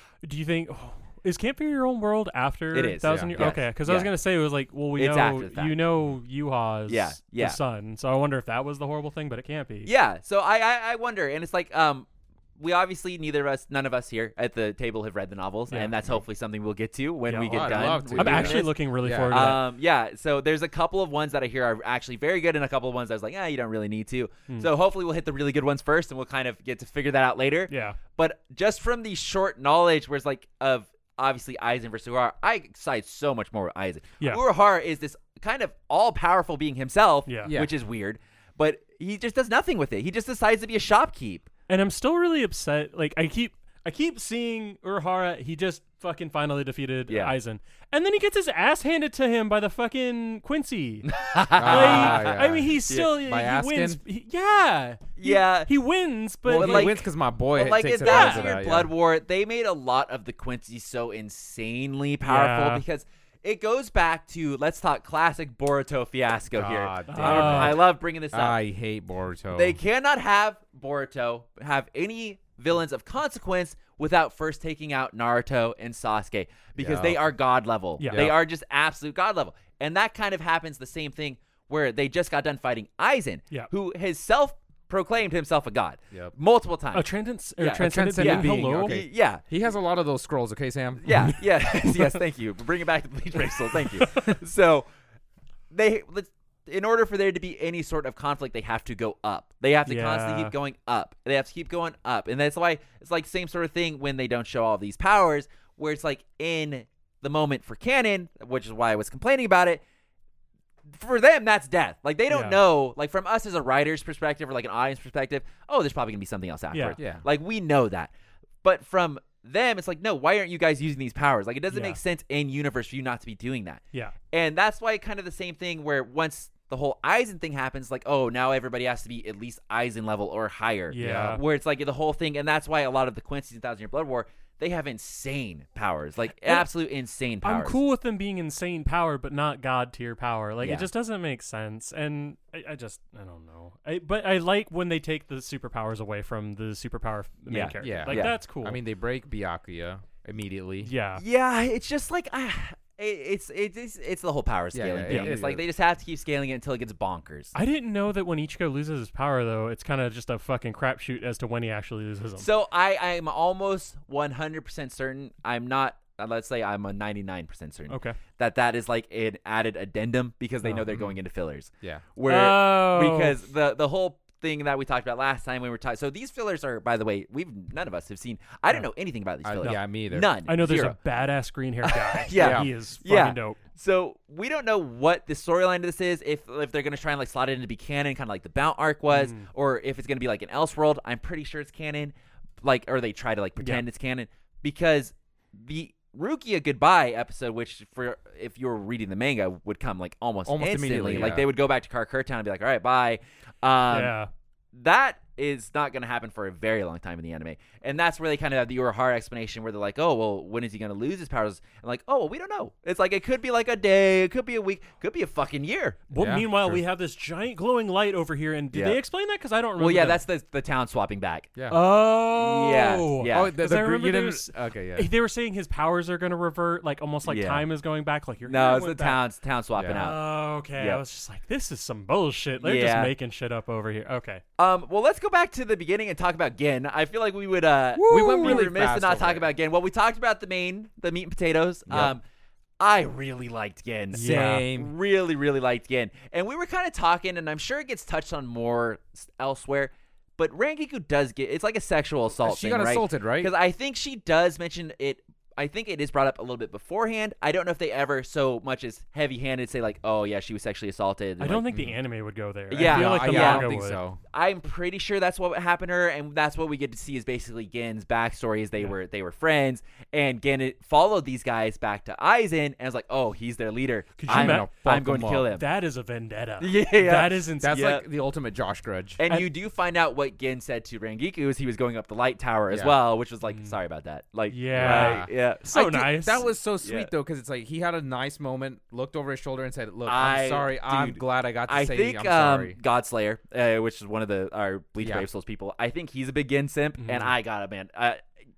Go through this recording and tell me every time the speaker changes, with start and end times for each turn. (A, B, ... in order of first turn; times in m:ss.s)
0:00.2-0:09.9 A
0:02.7-0:04.1 B
0:03.1-0:03.5 C
0:05.0-0:05.8 B
0:06.9-0:07.6 B
0:09.8-0:12.1 B
0:12.6-0:18.7 B
0:17.3-0:19.6 A
0:17.5-0:19.6 C
0:19.3-0:41.5 B
0:27.7-0:28.0 A
0:37.3-0:37.5 A
0:37.4-0:37.7 C
0:41.7-0:51.1 A
0:47.1-0:47.4 B
0:51.1-0:52.4 B
0:51.6-0:54.0 C
0:51.6-0:57.0 A
0:55.2-0:55.7 B
0:56.5-1:08.6 B
0:56.5-0:58.9 C
0:58.0-0:58.5 A
1:02.2-1:02.8 A
1:06.5-1:09.8 C
1:07.1-1:07.8 A
1:09.5-1:27.0 B
1:16.8-1:17.3 C
1:18.0-1:18.3 A
1:26.9-1:29.0 A
1:27.6-1:29.4 B
1:27.8-1:31.0 C
1:31.0-1:34.9 B
1:31.1-1:32.1 A
1:34.0-1:34.2 A
1:35.7-1:49.8 B
1:39.8-1:40.5 A
1:50.9-1:58.1 B
1:52.3-1:52.6 A
1:56.7-1:57.0 A
1:57.0-1:57.2 C
1:58.6-2:03.8 B
2:01.7-2:02.0 A
2:04.3-2:17.8 B
2:10.9-2:11.4 A
2:11.0-2:11.4 C
2:17.4-2:28.8 A
2:20.6-2:20.9 B
2:27.5-2:28.4 B
2:27.8-2:30.9 C
2:30.8-2:31.2 A
2:31.2-2:37.5 B
2:34.7-2:35.6 C
2:35.1-2:35.4 A
2:37.6-2:42.5 A
2:42.4-3:01.0 B
2:47.9-2:48.2 A
2:52.2-2:53.4 A
2:59.4-3:00.3 C
3:00.4-3:03.6 A
3:01.9-3:24.1 B
3:02.4-3:02.7 C
3:09.1-3:09.5 A
3:20.5-3:21.5 C
3:23.9-3:24.3 A
3:24.7-3:36.0 B
3:36.1-3:40.2 A
3:36.2-3:36.8 C
3:38.7-3:39.0 B
3:39.8-3:41.5 B
3:41.7-3:49.2 A
3:42.3-3:43.5 B
3:43.3-3:45.1 C
3:47.2-3:47.7 B
3:48.4-3:50.2 B
3:49.8-3:50.1 C
3:49.9-3:54.4 A
3:50.8-3:51.0 B
3:52.6-3:53.1 B
3:54.6-4:02.2 B
3:58.0-3:58.7 A
3:58.1-3:59.5 C
4:01.9-4:02.2 C
4:02.8-4:21.7 B
4:04.1-4:04.7 A
4:04.1-4:04.9 C
4:12.3-4:13.5 C
4:21.4-4:24.0 A
4:22.7-4:23.7 B
4:22.7-4:24.2 C
4:24.3-4:35.6 B
4:34.2-4:34.8 A
4:34.3-4:35.5 C
4:35.5-4:37.9 A
4:36.6-4:38.0 B
4:37.6-4:39.2 C
4:39.2-4:45.6 B
4:42.7-4:43.0 C
4:43.4-4:43.8 A
4:44.5-4:46.5 A
4:44.7-4:52.8 C
4:46.8-4:47.1 B
4:50.1-4:58.2 B
4:55.0-4:55.3 C
4:57.0-4:57.3 A